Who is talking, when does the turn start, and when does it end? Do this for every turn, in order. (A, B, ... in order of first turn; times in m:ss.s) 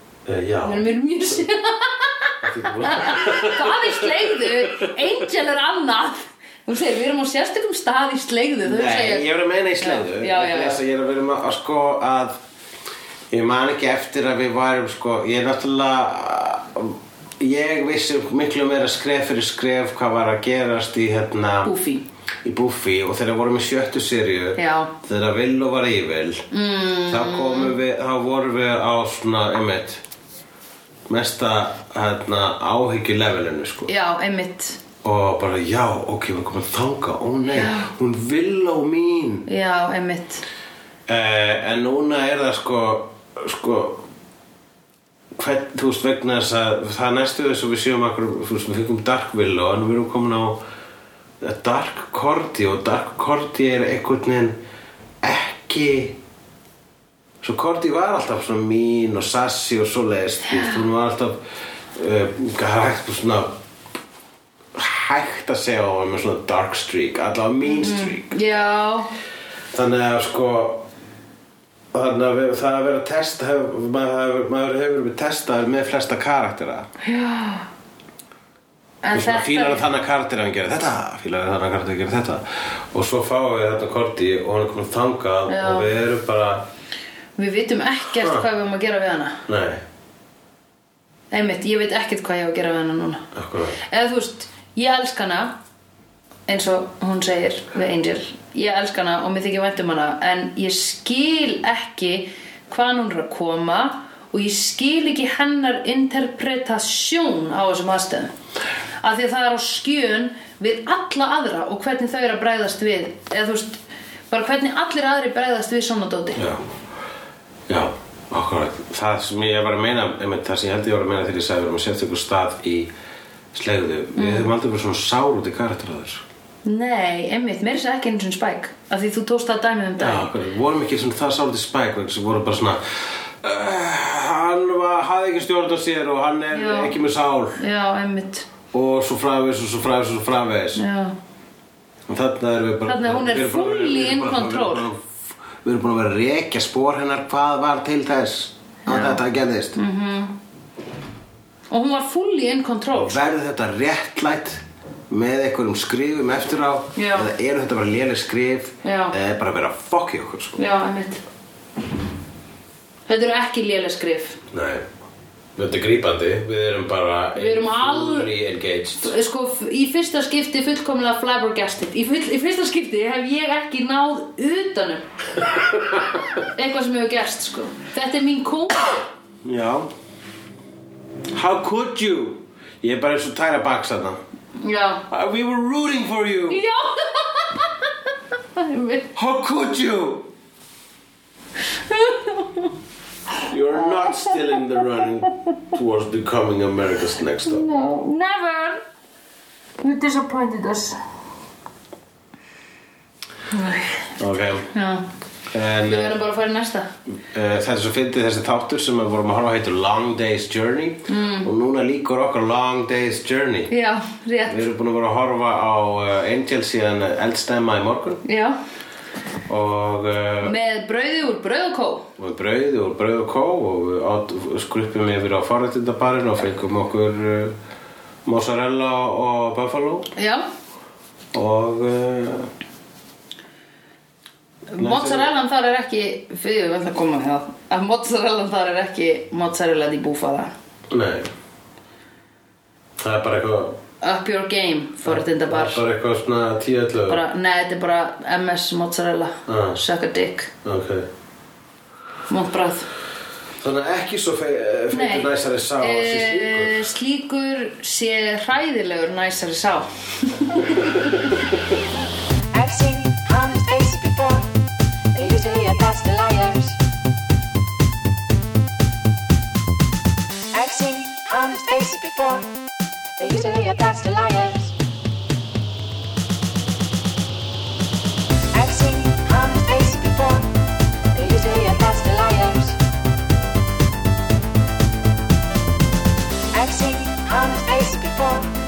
0:00.2-0:00.8 A
0:00.6-0:09.2 B
0:02.4-0:05.0 A
0:08.6-0:12.4 A
0:09.8-0:10.8 B
0:13.3-0:21.7 A
0:21.6-0:22.0 B
0:22.4-0:26.4 A
0:24.6-0:24.9 B
0:26.5-0:27.7 B
0:27.1-0:30.0 A
0:31.1-0:33.9 A
0:33.9-0:34.8 B
0:35.0-0:39.5 A
0:37.5-0:37.9 B
0:39.4-0:40.4 B
0:41.1-0:44.0 A
0:45.4-0:50.6 A
0:51.4-0:54.6 A
0:55.2-0:56.2 A
0:57.4-1:01.4 A
1:01.9-1:03.5 A
1:04.7-1:08.4 A
1:07.6-1:09.1 B
1:09.7-1:10.9 A
1:11.9-1:16.9 A
1:17.0-1:17.6 B
1:19.0-1:19.8 B
1:19.1-1:26.6 A
1:25.5-1:25.9 B
1:27.4-1:29.4 B
1:28.2-1:28.4 A
1:29.5-1:29.8 A
1:31.3-1:33.2 B
1:33.3-1:33.8 A
1:33.8-1:35.5 B
1:36.5-1:48.3 B
1:49.0-1:53.8 B
1:54.3-1:56.4 B
1:56.3-1:56.6 A
1:57.7-2:02.9 A
2:03.5-2:06.2 A
2:04.2-2:04.5 B
2:06.6-2:10.3 B
2:10.0-2:17.6 A
2:16.5-2:16.9 B
2:17.6-2:18.5 B
2:18.7-2:20.8 A
2:20.7-2:21.1 B
2:22.1-2:25.1 A
2:22.8-2:24.9 B
2:25.6-2:29.8 A
2:28.9-2:29.2 B
2:29.8-2:30.4 B
2:31.7-2:33.3 B
2:32.9-2:40.6 A
2:37.0-2:37.3 B
2:38.8-2:39.1 B
2:40.6-2:41.2 B
2:43.1-2:44.4 B
2:44.5-2:44.8 A
2:45.6-2:49.1 A
2:47.3-2:48.3 B
2:49.0-2:55.0 B
2:56.5-2:59.0 B
2:59.4-2:59.9 A
3:01.3-3:04.2 A
3:04.6-3:05.0 B
3:05.1-3:06.6 A
3:06.5-3:07.8 B
3:08.6-3:09.1 B
3:09.1-3:10.3 A
3:11.9-3:12.7 B
3:13.5-3:17.7 A
3:13.8-3:14.4 B
3:17.5-3:18.8 B
3:19.8-3:21.0 B
3:23.5-3:24.1 B
3:24.2-3:24.7 A
3:24.7-3:25.0 B
3:25.5-3:26.2 A
3:25.8-3:26.9 B
3:27.3-3:33.7 A
3:31.1-3:31.5 B
3:33.7-3:34.6 B
3:34.5-3:38.2 A
3:38.2-3:38.6 B
3:39.5-3:40.6 A
3:40.4-3:42.1 B
3:42.2-3:47.6 A
3:48.2-3:50.1 A
3:50.2-3:50.4 B
3:51.3-3:52.5 A
3:54.7-4:00.5 B
3:54.8-3:55.3 A
4:00.9-4:01.3 A
4:03.0-4:03.8 A
4:04.0-4:05.8 B
4:05.0-4:07.2 A
4:07.1-4:10.5 B
4:09.5-4:09.8 A
4:10.6-4:11.1 A
4:12.3-4:12.9 B
4:13.6-4:16.8 A
4:14.9-4:21.1 B
4:22.5-4:24.5 C
4:25.1-4:26.8 C
4:30.5-4:32.5 C
4:33.2-4:34.7 C
4:38.5-4:40.5 C
4:41.1-4:42.8 C
4:46.5-4:48.5 C